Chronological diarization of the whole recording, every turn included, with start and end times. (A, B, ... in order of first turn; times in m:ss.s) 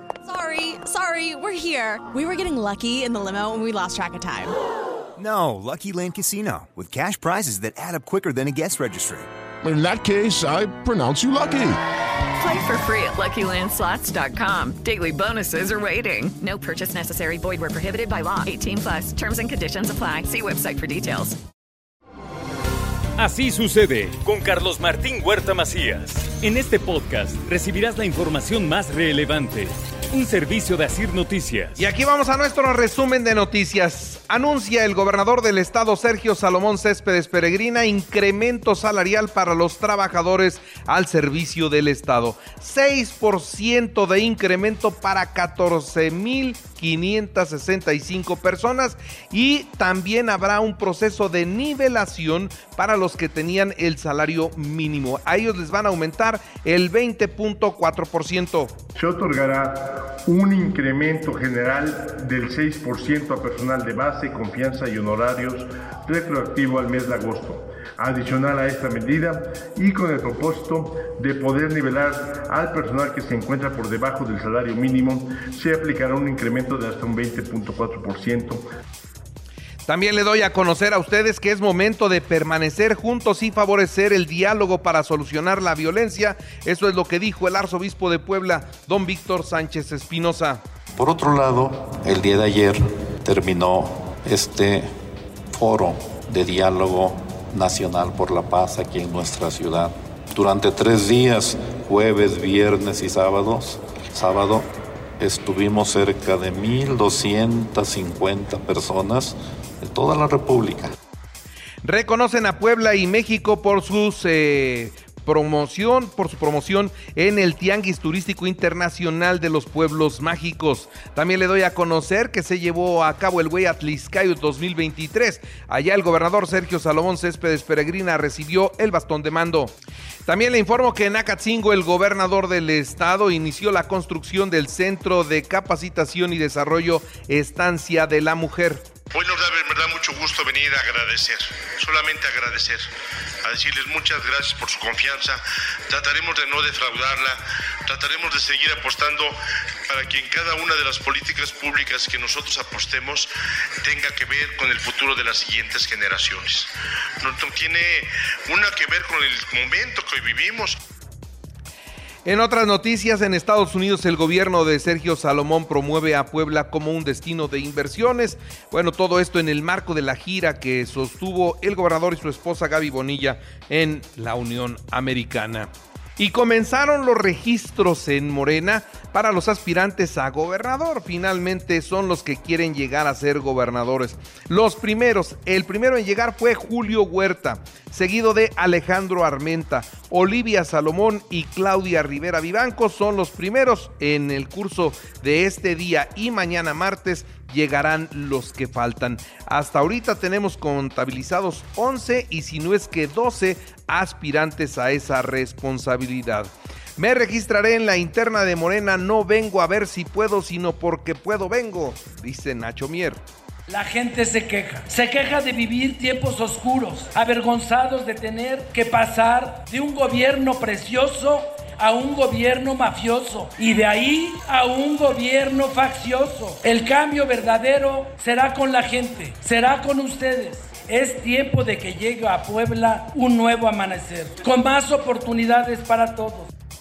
0:00.2-0:04.6 A
0:05.2-0:09.3 B
0:09.6-0:11.8 C
0:12.4-0:21.4 D
0:23.2-0:31.8 E
0:31.8-0:58.8 F
0:59.0-1:18.6 G
1:19.9-1:30.6 F
1:31.0-1:34.9 H
1:35.5-1:44.7 H
1:45.2-1:50.9 H
1:51.8-2:18.9 F
2:19.1-2:22.8 I
2:23.4-2:29.3 I
2:29.9-2:33.3 I
2:33.8-2:36.7 I
2:37.2-2:40.8 I
2:42.2-3:33.2 F
3:33.7-3:56.5 J